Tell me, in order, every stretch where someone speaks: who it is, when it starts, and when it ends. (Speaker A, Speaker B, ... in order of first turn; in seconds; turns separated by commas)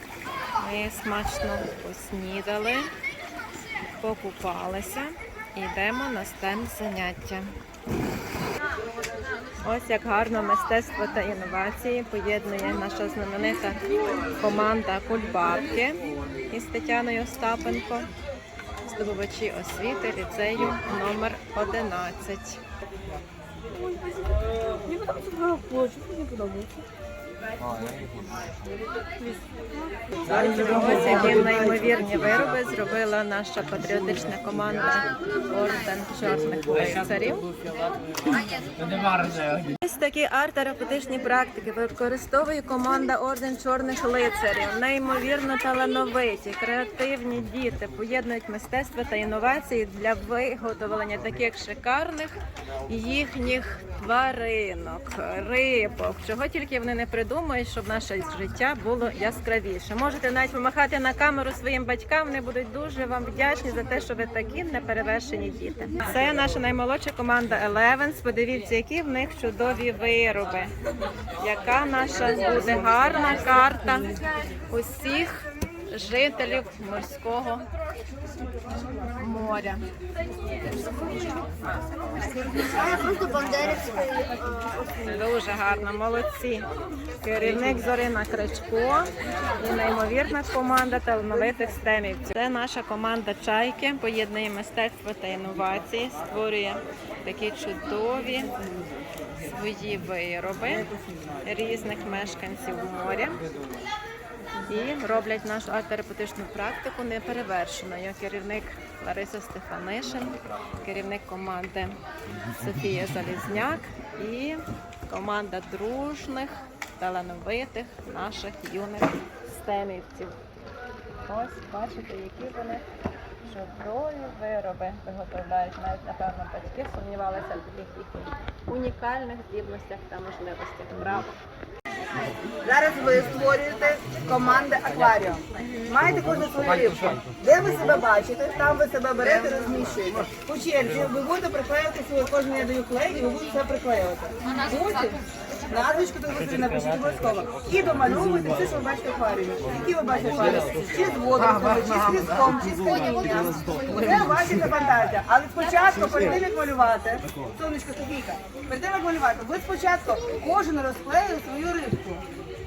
Speaker A: 0.6-2.9, Speaker A: 4.0-7.5, Speaker A: 9.6-13.8, Speaker A: 14.4-16.0, Speaker A: 16.5-18.1, Speaker A: 18.8-22.6, Speaker B: 23.8-26.8, Speaker C: 30.2-31.9, Speaker A: 30.3-37.5, Speaker A: 39.0-70.7, Speaker A: 71.4-77.7, Speaker A: 79.1-79.9, Speaker B: 80.8-81.3, Speaker B: 82.3-84.8, Speaker C: 82.7-83.9, Speaker A: 84.9-86.7, Speaker A: 87.2-98.5, Speaker A: 99.4-100.9, Speaker A: 101.4-103.4, Speaker A: 104.7-120.4, Speaker A: 121.3-122.8, Speaker A: 123.4-131.3, Speaker C: 132.6-162.2